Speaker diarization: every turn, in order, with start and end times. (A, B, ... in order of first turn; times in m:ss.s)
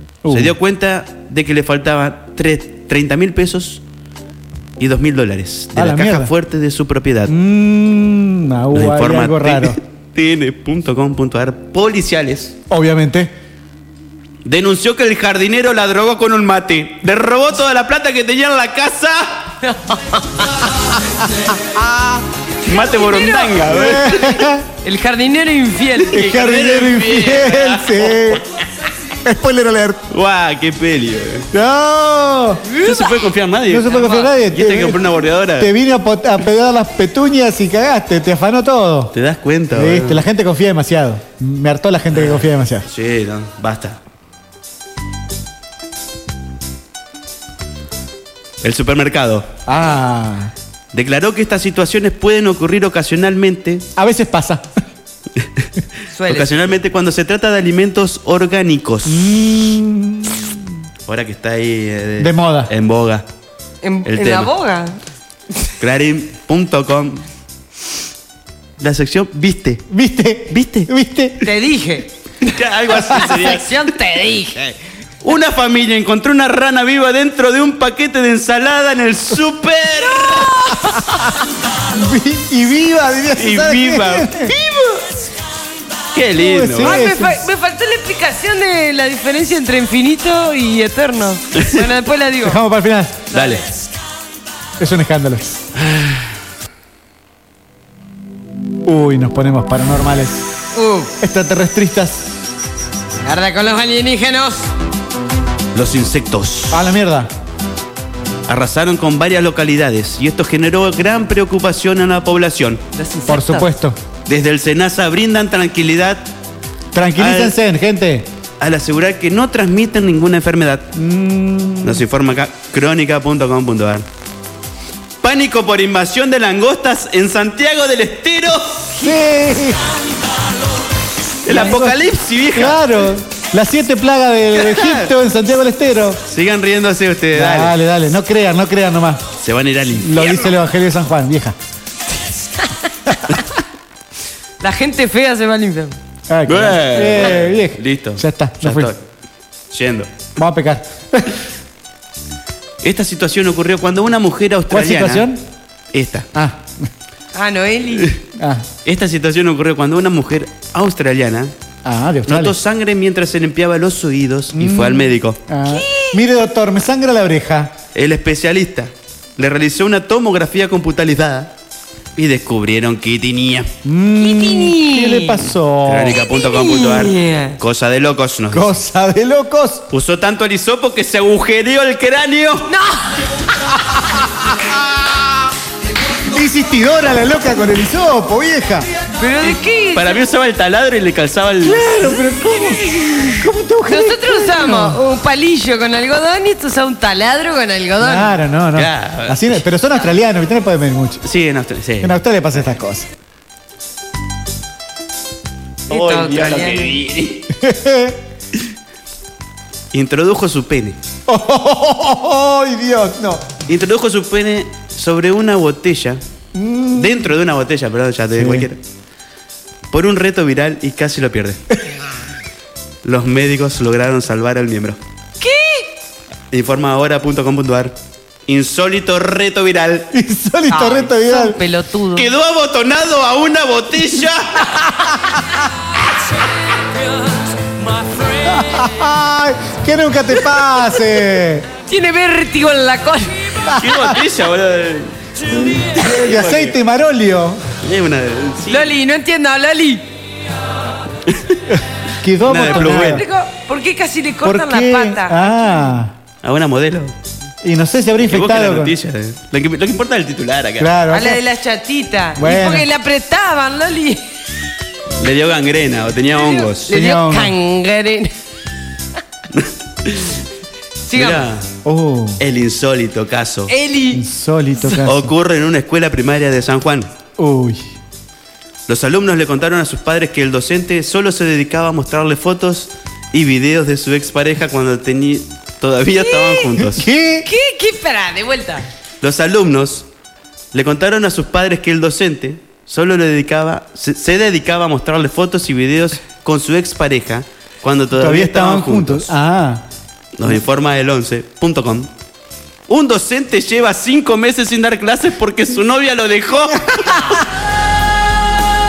0:00.2-0:00.5 A
0:00.3-0:03.8 B
0:04.8-0:07.3 B
0:05.7-0:06.3 A
0:07.3-0:09.8 A
0:08.7-0:12.6 B
0:12.7-0:13.3 A
0:14.4-0:19.4 B
0:19.6-0:20.5 C
0:21.7-0:22.2 A
0:22.6-0:24.4 B
0:22.9-0:23.5 C
0:23.6-0:24.6 A
0:24.8-0:26.2 C
0:26.0-0:28.3 B
0:26.1-0:28.4 A
0:29.2-0:30.0 A
0:30.1-0:31.5 B
0:31.5-0:32.6 A
0:32.7-0:33.1 C
0:32.8-0:35.7 B
0:33.7-0:35.0 A
0:35.6-0:39.1 A
0:39.1-0:40.2 B
0:39.7-0:42.8 A
0:42.1-0:44.0 B
0:48.6-0:49.5 B
0:49.7-0:50.5 A
0:50.9-0:53.8 B
0:54.0-0:54.6 A
0:55.4-0:55.7 B
0:56.1-0:56.5 C
0:56.3-0:59.2 B
0:59.0-1:00.7 A
1:01.0-1:03.2 B
1:02.2-1:02.7 A
1:03.8-1:05.0 C
1:04.0-1:04.5 B
1:05.8-1:07.2 B
1:08.8-1:09.8 B
1:09.9-1:11.5 A
1:10.5-1:10.9 B
1:11.4-1:12.5 C
1:12.4-1:13.8 B
1:13.1-1:14.7 C
1:15.2-1:20.5 B
1:20.0-1:21.3 C
1:21.9-1:24.5 A
1:23.4-1:25.0 B
1:26.1-1:27.0 B
1:26.4-1:27.4 A
1:26.8-1:32.6 C
1:31.5-1:31.8 B
1:32.4-1:33.3 A
1:33.3-1:33.6 B
1:33.3-1:33.6 C
1:34.8-1:35.6 A
1:35.8-1:36.2 B
1:38.8-1:40.4 A
1:40.7-1:41.1 C
1:41.2-1:42.4 A
1:43.2-1:44.7 C
1:45.7-1:46.8 B
1:46.7-1:47.3 A
1:48.5-1:52.8 B
1:52.9-1:53.7 C
1:53.3-1:54.0 A
1:54.2-1:56.2 B
1:56.9-1:58.3 A
1:57.2-1:57.6 B
1:58.6-2:00.9 B
2:00.9-2:02.0 A
2:01.8-2:04.0 B
2:05.2-2:08.9 B
2:09.0-2:09.8 A
2:11.4-2:12.9 B
2:11.5-2:16.2 A
2:14.5-2:15.1 B
2:16.3-2:17.7 B
2:17.3-2:19.2 A
2:19.4-2:20.5 B
2:20.0-2:21.6 A
2:22.6-2:23.2 C
2:24.6-2:26.0 C
2:26.3-2:28.9 A
2:26.5-2:29.0 B
2:29.7-2:30.1 B
2:30.4-2:31.3 A
2:32.8-2:35.3 B
2:34.7-2:35.4 A
2:35.9-2:36.3 B
2:36.3-2:36.7 A
2:37.3-2:38.2 C
2:38.4-2:38.6 A
2:38.8-2:41.5 B
2:41.8-2:42.6 A
2:42.2-2:45.4 B
2:44.5-2:47.8 A
2:45.7-2:46.2 C
2:47.9-2:51.5 B
2:52.2-2:53.7 B
2:53.8-2:56.2 A
2:54.2-2:55.4 C
2:55.8-2:58.8 B
2:56.2-2:57.6 C
2:58.5-2:59.8 A
2:59.9-3:02.7 B
3:02.6-3:03.3 C
3:04.0-3:05.1 A
3:06.2-3:08.9 A
3:09.1-3:10.2 C
3:09.9-3:12.1 B
3:11.6-3:15.0 A
3:13.9-3:18.3 C
3:18.0-3:21.2 A
3:18.7-3:19.6 B
3:21.2-3:22.1 B
3:22.0-3:23.1 A
3:25.9-3:27.5 B
3:25.9-3:26.9 C
3:27.5-3:28.2 A
3:29.9-3:31.0 B
3:31.3-3:33.4 A
3:33.7-3:36.2 B
3:36.5-3:37.3 A
3:36.9-3:38.8 B
3:38.4-3:38.7 A
3:39.9-3:41.6 B
3:43.0-3:45.0 B
3:45.4-3:45.9 C
3:46.5-3:48.0 B
3:48.5-3:50.1 B
3:50.1-3:51.6 A
3:50.7-3:52.3 C
3:52.1-3:54.7 B
3:54.6-3:55.5 A
3:58.0-3:58.3 C
3:58.4-4:01.7 A
4:01.8-4:03.6 C
4:03.6-4:04.2 A
4:03.7-4:06.8 B
4:05.9-4:07.6 A
4:07.8-4:08.9 B
4:08.7-4:10.1 C
4:11.3-4:11.6 B
4:11.7-4:13.2 A
4:12.4-4:13.2 B
4:12.7-4:15.6 C
4:14.4-4:16.1 A
4:16.4-4:17.1 B
4:17.6-4:18.9 A
4:18.3-4:20.9 B
4:20.8-4:21.4 A
4:21.1-4:24.2 C
4:22.4-4:22.9 A
4:25.2-4:26.9 B
4:26.4-4:28.3 C
4:26.9-4:27.6 A
4:29.5-4:30.4 B
4:31.0-4:31.4 C
4:31.1-4:31.7 B
4:31.8-4:32.4 A
4:32.4-4:33.7 B
4:33.7-4:34.2 C
4:34.1-4:35.3 A
4:35.0-4:37.1 B
4:37.4-4:37.9 A
4:38.9-4:47.1 B
4:46.1-4:46.7 C
4:46.8-4:47.5 A
4:47.4-4:48.9 C
4:49.2-4:50.0 B
4:50.7-4:59.3 B
4:58.2-4:59.8 A
5:00.4-5:02.1 B
5:02.9-5:07.4 B
5:06.8-5:07.4 A